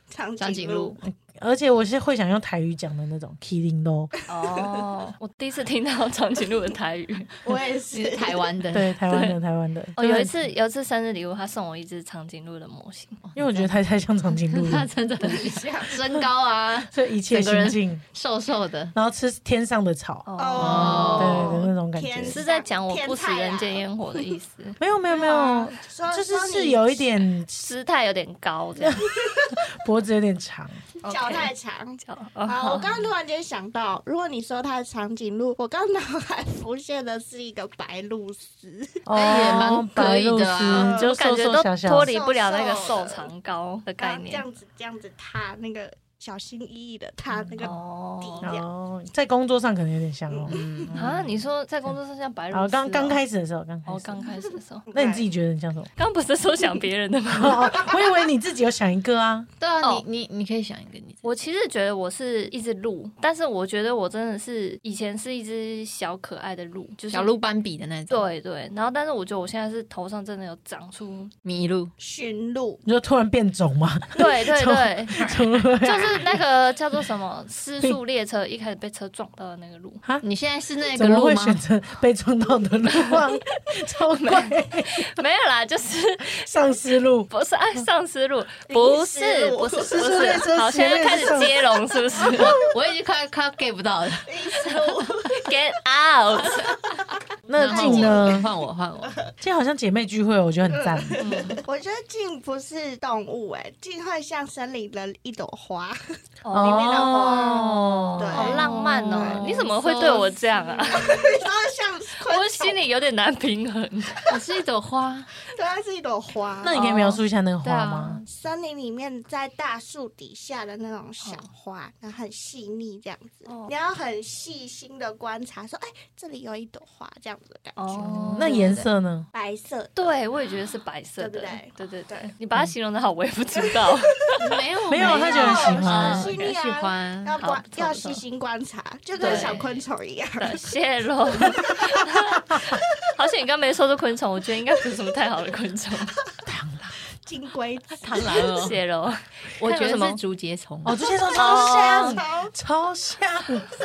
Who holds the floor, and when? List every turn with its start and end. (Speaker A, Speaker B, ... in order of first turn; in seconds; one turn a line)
Speaker A: 0.1-1.0
Speaker B: 0.4-1.0
Speaker C: 1.0-4.1
Speaker D: 4.3-7.4
Speaker A: 7.4-8.7
Speaker B: 7.9-8.9
Speaker C: 8.7-10.3
Speaker D: 10.0-13.2
Speaker B: 13.2-13.7
Speaker C: 13.4-14.9
Speaker B: 14.5-18.9
Speaker A: 15.2-15.9
Speaker C: 16.9-18.0
Speaker C: 18.9-22.4
Speaker D: 20.2-21.6
Speaker A: 20.4-24.2
Speaker B: 20.6-21.6
Speaker D: 22.3-24.8
Speaker C: 24.8-27.7
Speaker A: 25.1-27.0
Speaker D: 27.6-29.1
Speaker C: 28.8-29.1
Speaker A: 29.2-29.6
Speaker C: 29.7-30.8
Speaker D: 31.0-33.1
Speaker A: 31.0-39.0
Speaker C: 39.1-42.1
Speaker B: 39.1-41.0
Speaker A: 40.7-41.1
Speaker D: 41.1-44.4
Speaker A: 42.0-43.3
Speaker A: 44.0-48.6
Speaker D: 47.6-48.5
Speaker C: 48.4-51.9
Speaker A: 50.3-50.9
Speaker B: 50.5-51.0
Speaker D: 51.0-53.2
Speaker C: 52.5-54.2
Speaker D: 53.9-54.9
Speaker A: 54.9-55.2
Speaker C: 54.9-55.9
Speaker D: 56.0-58.0
Speaker C: 57.3-59.5
Speaker B: 59.6-61.2
Speaker D: 61.2-67.3
Speaker B: 67.1-68.3
Speaker D: 68.1-71.3
Speaker B: 71.4-71.9
Speaker A: 72.0-72.8
Speaker C: 72.8-76.3
Speaker D: 74.2-80.0
Speaker B: 80.2-81.6
Speaker C: 80.9-85.1
Speaker D: 83.0-83.4
Speaker D: 84.1-86.5
Speaker C: 86.4-87.8
Speaker D: 87.3-92.6
Speaker A: 88.7-90.0
Speaker C: 89.8-91.6
Speaker B: 92.3-94.7
Speaker A: 94.3-95.4
Speaker D: 95.3-96.8
Speaker C: 97.5-98.5
Speaker B: 97.6-99.2
Speaker A: 97.6-98.5
Speaker A: 99.0-99.3
Speaker C: 99.4-101.2
Speaker A: 100.7-112.8
Speaker D: 101.2-101.6
Speaker D: 106.4-107.1
Speaker C: 106.5-108.7
Speaker B: 107.4-110.3
Speaker D: 108.3-111.4
Speaker D: 112.2-114.3
Speaker B: 114.3-115.3
Speaker A: 115.5-116.8
Speaker C: 116.6-118.2
Speaker B: 116.7-118.3
Speaker A: 118.3-128.7
Speaker D: 123.5-123.7
Speaker D: 127.8-128.8
Speaker B: 128.1-128.8
Speaker C: 128.3-129.3
Speaker A: 129.3-130.2
Speaker D: 130.0-134.4
Speaker A: 131.2-132.3
Speaker A: 133.7-134.0
Speaker B: 134.4-137.4
Speaker C: 134.9-136.3
Speaker A: 135.0-140.6
Speaker D: 135.1-136.6
Speaker D: 137.4-138.2
Speaker D: 139.2-139.7
Speaker B: 139.2-139.8
Speaker D: 140.4-146.2
Speaker A: 141.6-142.0
Speaker C: 146.4-146.9
Speaker A: 147.2-148.5
Speaker B: 148.0-148.8
Speaker D: 148.6-150.2
Speaker B: 149.6-151.0
Speaker C: 150.8-153.7
Speaker A: 151.3-152.5
Speaker D: 151.3-152.2